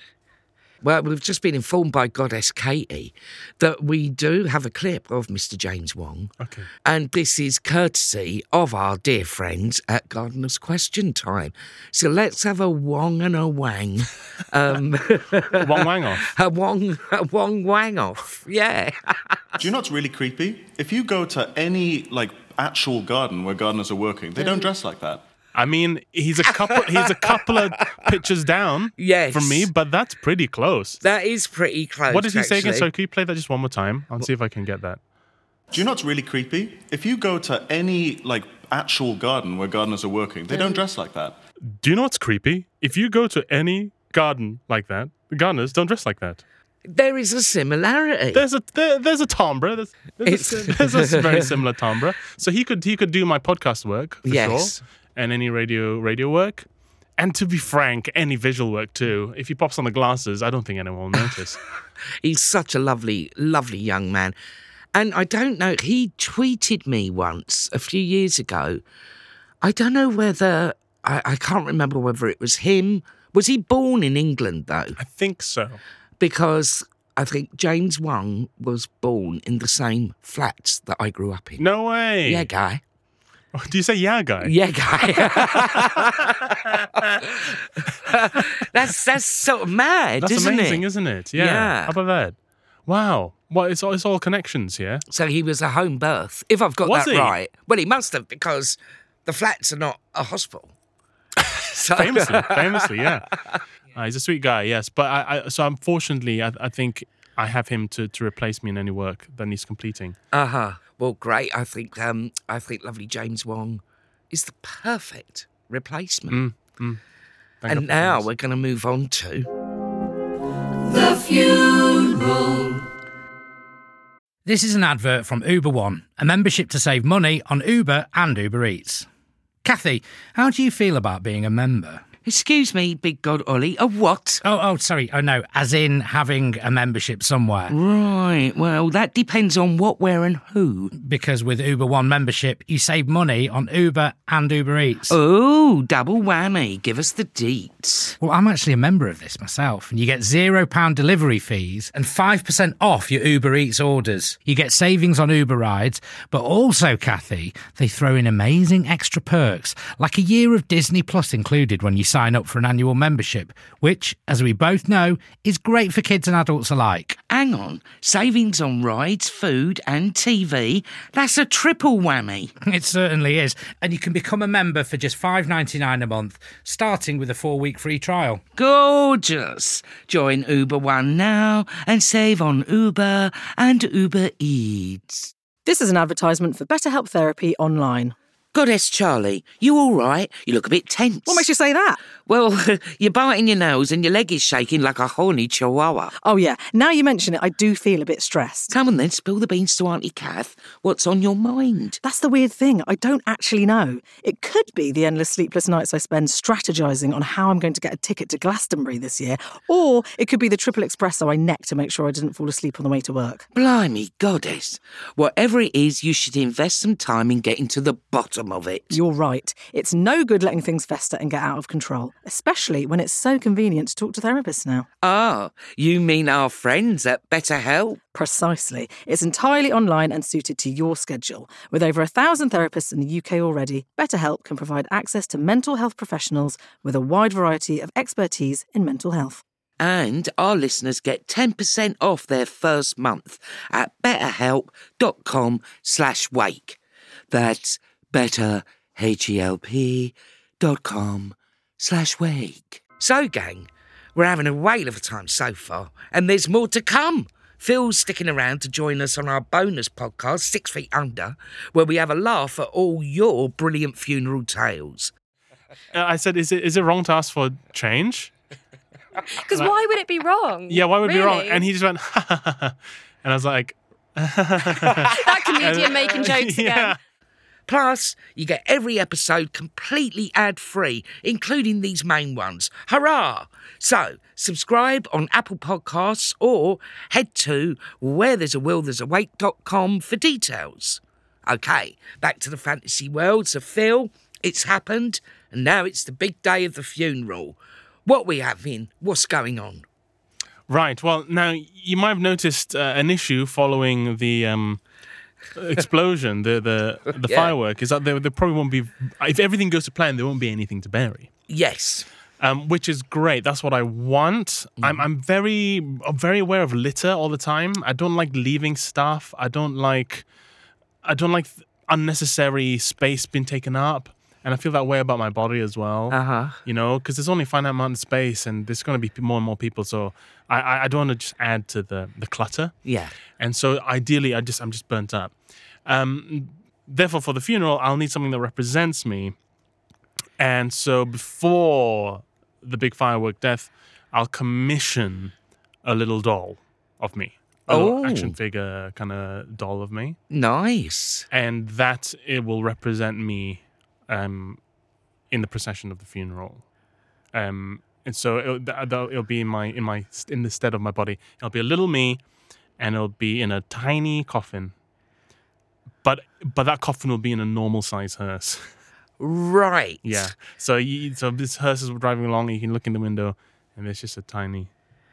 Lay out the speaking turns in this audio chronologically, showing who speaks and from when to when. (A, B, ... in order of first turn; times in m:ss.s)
0:00.8-0:06.3 A
0:06.4-0:06.7 B
0:06.8-0:19.6 A
0:15.5-0:16.3 B
0:19.6-0:25.2 C
0:25.5-0:31.0 B
0:26.4-0:28.0 A
0:29.0-0:29.7 A
0:31.0-0:32.9 A
0:32.1-0:35.0 B
0:35.7-0:41.4 C
0:41.8-0:46.4 B
0:46.8-0:48.4 A
0:48.3-0:56.6 B
0:50.2-0:51.5 A
0:54.2-0:54.8 A
0:57.2-1:01.6 B
1:02.2-1:04.3 A
1:04.9-1:08.8 A
1:09.6-1:15.0 A
1:15.0-1:15.8 B
1:16.2-1:21.6 A
1:21.6-1:22.5 B
1:22.2-1:22.8 A
1:23.5-1:24.5 B
1:24.4-1:31.9 A
1:25.1-1:25.9 B
1:30.2-1:35.0 B
1:35.1-1:40.7 A
1:36.8-1:37.3 B
1:41.4-1:43.3 B
1:41.7-1:43.6 A
1:43.9-1:50.2 B
1:50.3-1:56.4 A
1:56.3-1:57.0 B
1:57.6-1:58.2 B
1:57.7-1:59.5 A
2:00.8-2:02.8 A
2:04.4-2:09.1 D
2:09.6-2:12.0 D
2:12.2-2:14.4 A
2:14.4-2:17.7 D
2:17.7-2:20.9 A
2:21.0-2:25.2 D
2:25.1-2:28.1 A
2:28.2-2:47.2 D
2:47.3-2:52.5 A
2:52.6-2:58.4 D
2:58.6-3:05.3 A
3:05.6-3:08.1 E
3:08.5-3:11.4 A
3:11.2-3:12.0 E
3:12.2-3:16.1 A
3:16.2-3:18.7 E
3:18.7-3:22.0 A
3:22.0-3:33.5 E
3:33.5-3:39.0 A
3:38.9-3:44.9 E
3:45.0-3:48.0 A
3:48.1-3:59.4 E
3:59.8-4:06.8 A
4:07.3-4:25.1 A
4:25.9-4:28.3 B
4:29.4-4:31.7 F
4:30.7-4:37.0 B
4:34.7-4:35.1 A
4:35.1-4:37.0 F
4:37.7-4:59.8 A
5:00.7-5:04.8 B
5:05.5-5:11.3 B
5:07.2-5:07.5 A
5:11.5-5:12.1 A
5:12.4-5:20.2 B
5:14.8-5:15.0 A
5:21.0-5:32.7 B
5:26.1-5:26.6 A
5:32.8-5:33.1 A
5:33.4-5:35.3 B
5:35.8-5:39.3 B
5:40.4-5:45.3 B
5:45.8-5:50.2 B
5:47.7-5:48.3 A
5:50.3-5:51.3 A
5:51.3-5:54.6 B
5:55.3-5:56.6 B
5:57.3-6:02.2 B
6:02.8-6:04.7 B
6:06.0-6:08.7 B
6:09.2-6:10.3 A
6:10.0-6:14.7 B